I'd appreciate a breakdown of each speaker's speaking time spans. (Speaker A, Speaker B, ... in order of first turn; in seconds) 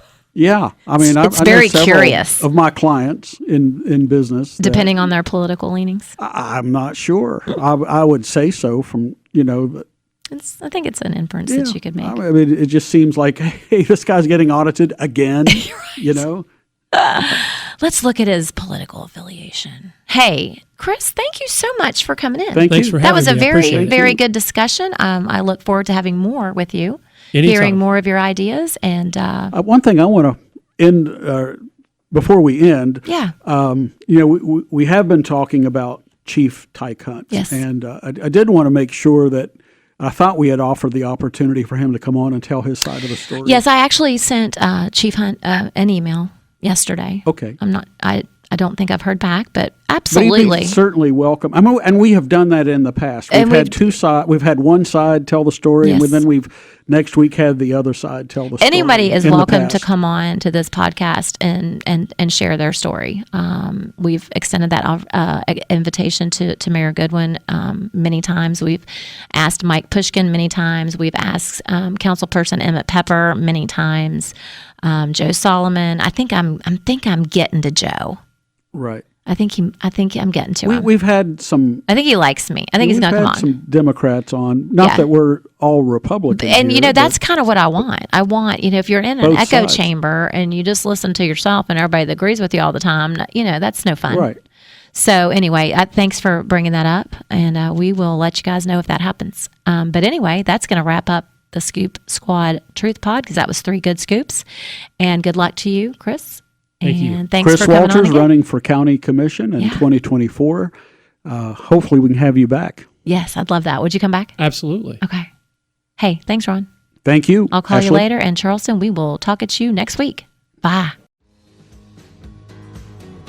Speaker A: 0.3-5.0, 6.2-9.8, 11.5-16.5, 22.5-23.0, 23.6-24.2, 29.5-31.6, 32.1-43.6, 47.3-47.6, 50.1-59.9, 78.7-79.0, 80.6-81.8, 82.8-87.2, 89.2-89.9, 94.1-94.4, 107.4-110.7, 111.2-112.9, 117.0-118.0
Speaker B: 1.0-2.4, 4.6-6.1, 10.3-12.2, 15.5-16.2, 16.9-29.5, 33.1-33.4, 37.3-37.6, 43.4-50.8, 53.3-53.9, 55.8-56.2, 58.6-78.2, 79.3-80.9, 81.9-83.5, 84.8-85.1, 86.3-94.3, 94.9-104.4, 105.0-108.3, 109.6-109.8, 113.0-114.4, 115.0-115.3, 116.0-116.7, 117.5-121.0
Speaker C: 22.7-23.9, 27.3-27.8, 106.8-107.2, 114.4-115.0